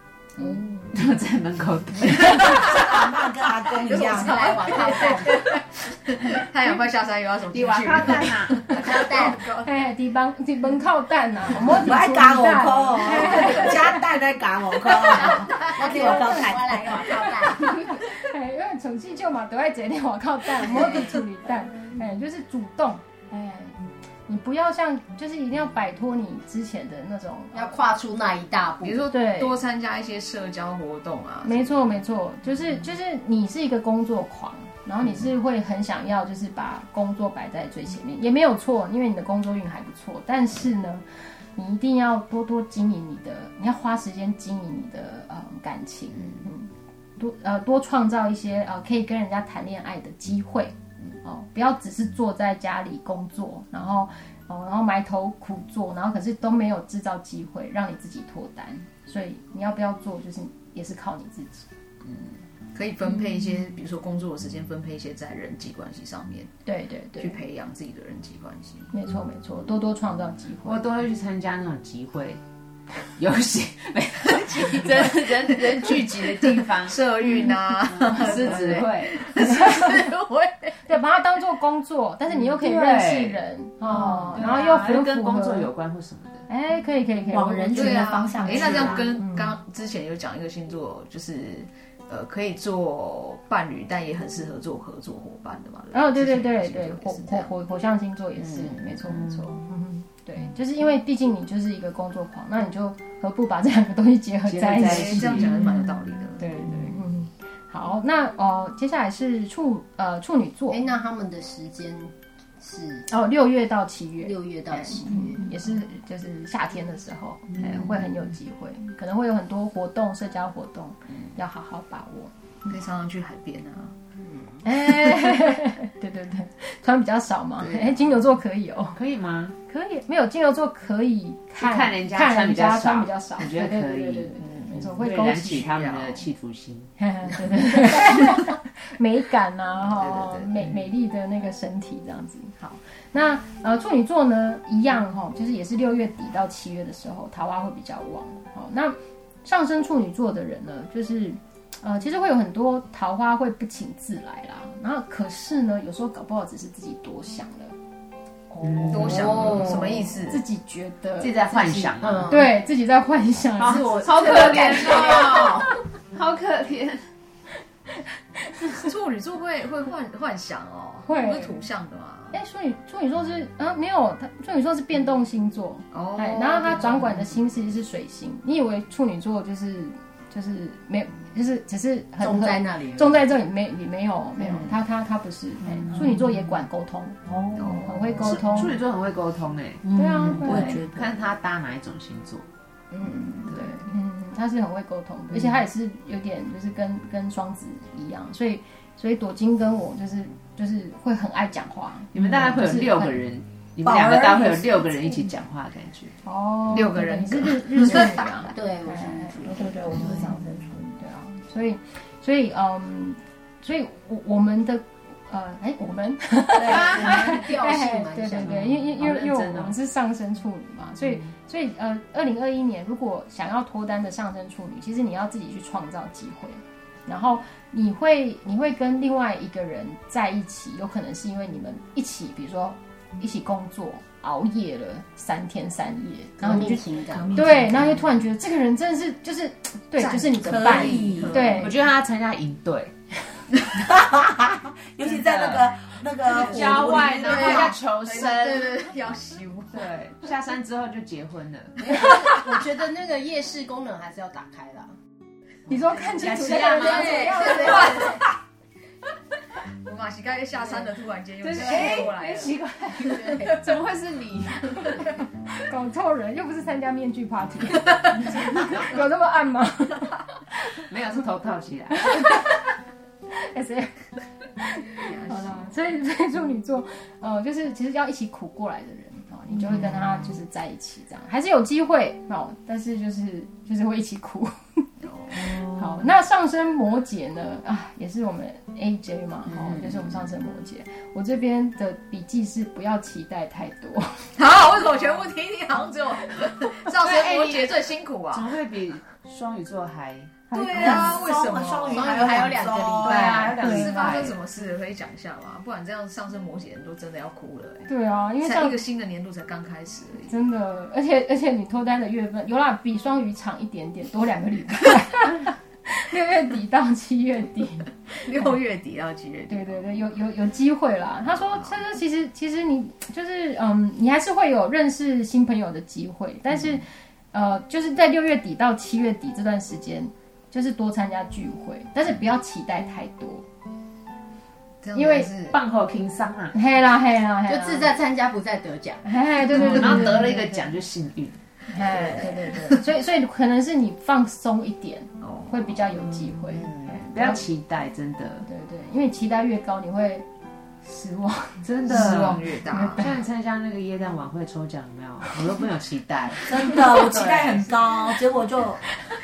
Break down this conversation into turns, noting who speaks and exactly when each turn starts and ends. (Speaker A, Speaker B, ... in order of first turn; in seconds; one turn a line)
Speaker A: 0.4-0.9
Speaker B: 0.9-2.8
Speaker C: 2.5-3.1
Speaker D: 2.7-4.4
Speaker C: 3.8-9.7
Speaker E: 3.9-5.5
Speaker B: 7.5-8.7
Speaker E: 8.8-9.4
Speaker A: 9.6-14.1
Speaker D: 11.7-17.2
Speaker C: 15.1-15.8
Speaker E: 15.8-17.8
Speaker A: 15.9-27.8
Speaker E: 27.5-29.0
Speaker C: 28.8-31.8
Speaker A: 29.1-29.6
Speaker A: 31.4-61.7
Speaker C: 62.0-66.5
Speaker A: 66.7-67.4
Speaker C: 67.2-68.9
Speaker A: 68.9-70.9
Speaker B: 70.6-72.4
Speaker B: 73.2-77.0
Speaker C: 74.2-80.8
Speaker A: 78.1-78.8
Speaker B: 78.1-79.2
Speaker A: 79.4-80.1
Speaker A: 80.9-85.7
Speaker B: 82.6-86.4
Speaker A: 86.5-89.5
Speaker D: 87.3-89.1
Speaker C: 87.8-97.5
Speaker B: 88.7-89.0
Speaker A: 95.9-105.5
Speaker B: 104.5-105.6
Speaker C: 104.7-106.5
Speaker A: 106.4-110.8
Speaker E: 110.7-113.1
Speaker A: 113.1-122.7
Speaker E: 114.2-115.4
Speaker C: 122.7-123.9
Speaker A: 124.6-129.0
Speaker C: 124.8-125.4
Speaker C: 127.6-128.2
Speaker B: 129.0-129.6
Speaker A: 129.7-135.7
Speaker B: 131.6-136.9
Speaker C: 134.4-136.2
Speaker A: 137.0-157.8
Speaker C: 139.9-140.7
Speaker B: 158.6-159.7
Speaker E: 158.8-160.1
Speaker C: 158.9-160.4
Speaker A: 159.3-159.6
Speaker A: 160.3-161.5
Speaker B: 161.2-162.3
Speaker E: 161.6-162.5
Speaker A: 162.3-164.7
Speaker E: 163.6-165.6
Speaker B: 163.8-167.0
Speaker C: 168.7-172.4
Speaker A: 171.1-171.6
Speaker A: 172.3-188.8
Speaker C: 175.9-177.1
Speaker E: 182.2-183.3
Speaker E: 184.4-184.8
Speaker D: 187.3-187.6
Speaker C: 187.6-188.5
Speaker B: 188.1-192.5
Speaker D: 189.8-191.2
Speaker A: 189.9-190.8
Speaker A: 192.9-203.2
Speaker B: 193.5-193.8
Speaker B: 202.1-206.1
Speaker D: 203.8-205.2
Speaker A: 206.2-241.8
Speaker C: 206.7-208.2
Speaker E: 208.5-210.2
Speaker D: 209.6-210.3
Speaker E: 216.5-218.7
Speaker B: 218.4-219.8
Speaker E: 236.4-237.6
Speaker D: 237.2-237.7
Speaker C: 240.0-241.7
Speaker D: 240.4-241.4
Speaker B: 241.5-242.9
Speaker D: 243.8-247.7
Speaker B: 245.1-248.9
Speaker C: 246.4-249.9
Speaker E: 246.5-248.8
Speaker B: 249.7-252.2
Speaker E: 251.8-254.9
Speaker A: 255.7-258.2
Speaker B: 256.2-257.2
Speaker E: 256.7-258.1
Speaker C: 256.8-258.2
Speaker C: 259.8-263.4
Speaker E: 260.6-260.9
Speaker B: 261.4-264.8
Speaker E: 261.6-262.1
Speaker E: 262.9-263.6
Speaker A: 265.7-270.6
Speaker B: 270.9-272.3
Speaker A: 271.9-272.7
Speaker A: 273.4-274.1
Speaker A: 274.6-284.8
Speaker C: 275.0-275.7
Speaker C: 285.0-285.4
Speaker A: 285.4-294.3
Speaker C: 294.4-298.5
Speaker B: 297.0-300.4
Speaker A: 300.5-301.2
Speaker C: 300.5-302.6
Speaker D: 300.7-303.6
Speaker E: 301.9-303.4
Speaker B: 303.0-304.4
Speaker A: 303.4-304.2
Speaker C: 303.4-307.9
Speaker A: 307.9-308.8
Speaker C: 308.4-310.4
Speaker A: 310.3-317.9
Speaker C: 318.2-320.0
Speaker A: 319.5-333.4
Speaker C: 334.8-335.6
Speaker A: 334.9-335.3
Speaker B: 335.5-336.6
Speaker A: 336.5-338.0
Speaker E: 337.5-339.1
Speaker A: 339.0-340.7
Speaker B: 339.5-341.4
Speaker C: 339.6-340.1
Speaker A: 341.7-347.4
Speaker C: 345.2-345.9
Speaker B: 347.1-348.5
Speaker A: 348.4-350.3
Speaker A: 350.8-352.0
Speaker B: 351.6-352.4
Speaker C: 351.9-353.1
Speaker A: 352.7-353.2
Speaker B: 353.0-357.8
Speaker D: 356.5-358.8